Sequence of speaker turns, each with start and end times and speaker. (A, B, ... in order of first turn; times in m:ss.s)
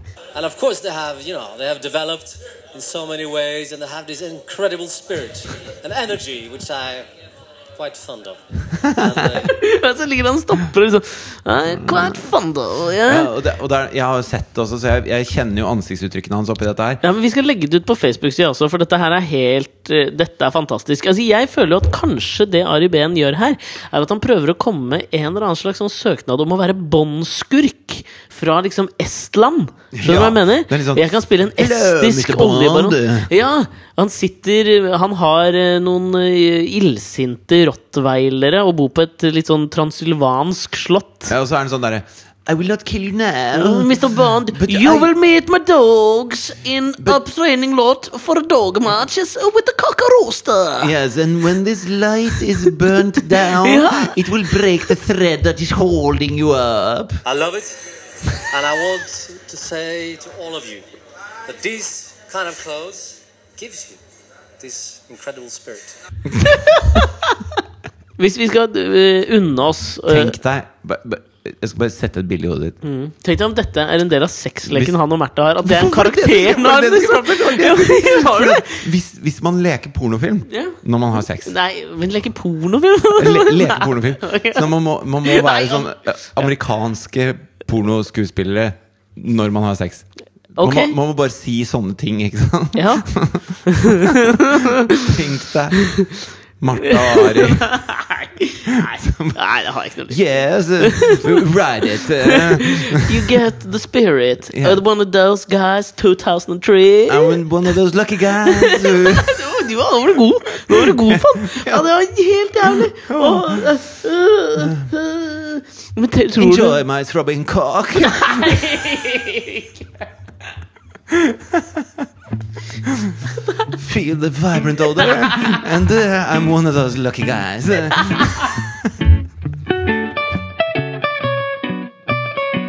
0:00.4-0:07.1 A
0:07.8-0:09.6 A
0:08.8-0:09.3 B
0:09.4-0:13.3 C
0:13.1-0:17.0 B
0:17.0-0:41.3 C
0:29.9-0:33.3 B
0:41.3-0:45.1 B
0:43.5-0:50.9 C
0:50.8-0:57.2 B
0:52.6-0:54.2 C
0:57.2-0:57.8 A
0:58.3-1:00.8 A
1:01.4-1:04.0 A
1:04.6-1:05.9 A
1:06.6-1:07.0 C
1:08.2-1:10.4 C
1:10.1-1:12.8 B
1:12.8-1:18.8 C
1:14.7-1:15.0 B
1:15.6-1:21.5 B
1:20.5-1:20.8 C
1:21.4-1:25.9 C
1:23.2-1:30.0 B
1:30.6-1:36.0 B
1:30.6-1:31.0 C
1:32.8-1:33.1 C
1:33.7-1:35.1 C
1:35.8-1:36.2 C
1:36.6-1:37.7 B
1:36.8-1:40.2 C
1:38.7-1:39.4 B
1:40.1-1:43.4 B
1:40.8-1:41.4 C
1:42.2-1:47.7 C
1:44.5-1:44.8 B
1:47.1-1:49.5 B
1:48.4-1:56.8 C
1:50.7-1:51.9 B
1:52.6-1:53.8 B
1:54.6-1:54.9 B
1:56.4-1:58.8 B
1:58.1-1:59.8 C
2:01.1-2:01.8 B
2:02.8-2:03.2 B
2:03.7-2:08.9 B